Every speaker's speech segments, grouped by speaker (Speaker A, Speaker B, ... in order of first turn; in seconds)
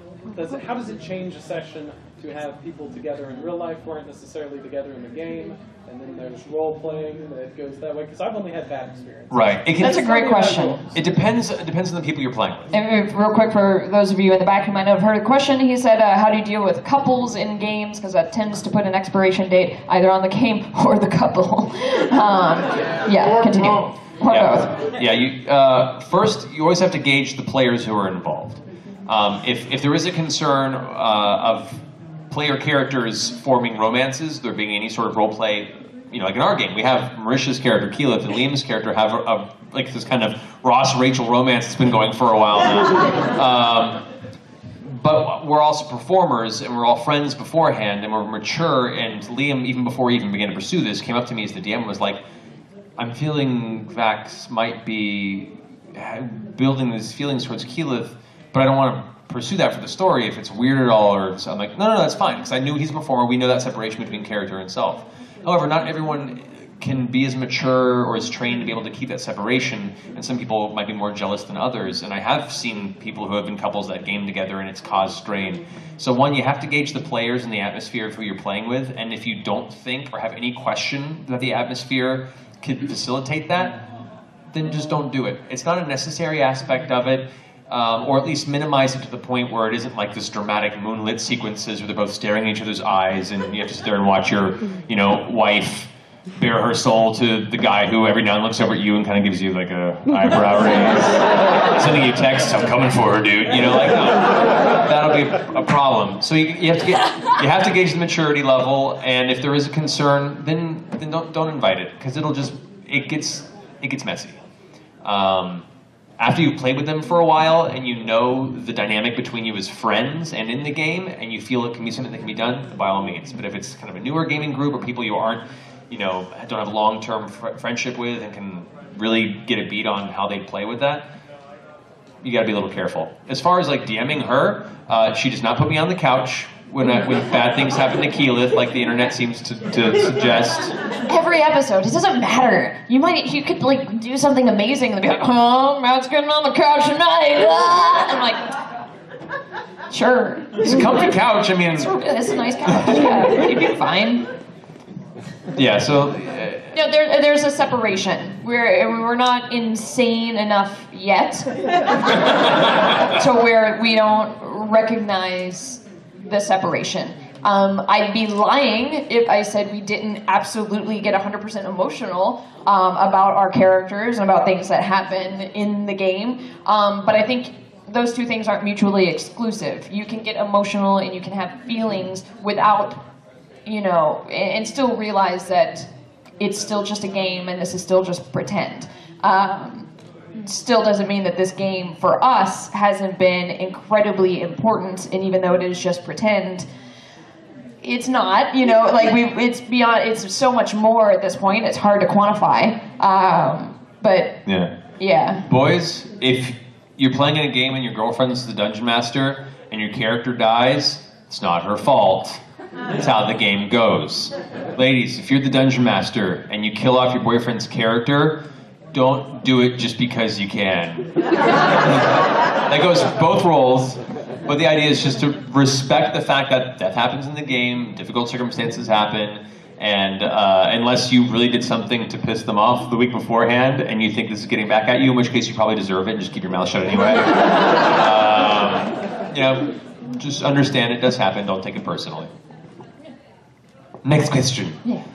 Speaker A: 0.3-11.0
Speaker B: 9.3-10.1, 10.9-12.7, 24.2-44.0, 44.8-52.2, 53.0-83.8, 84.5-114.4, 115.0-115.7, 116.2-131.1, 132.2-140.8, 150.6-151.9, 155.5-156.7, 204.4-204.8, 205.5-212.4, 212.9-242.3, 244.0-244.8
Speaker C: 9.8-10.8, 12.7-24.8, 141.0-148.6, 149.9-151.1, 151.7-154.3, 156.7-161.5, 163.0-183.0, 183.7-185.9, 186.4-196.7, 197.8-204.4, 205.0-205.5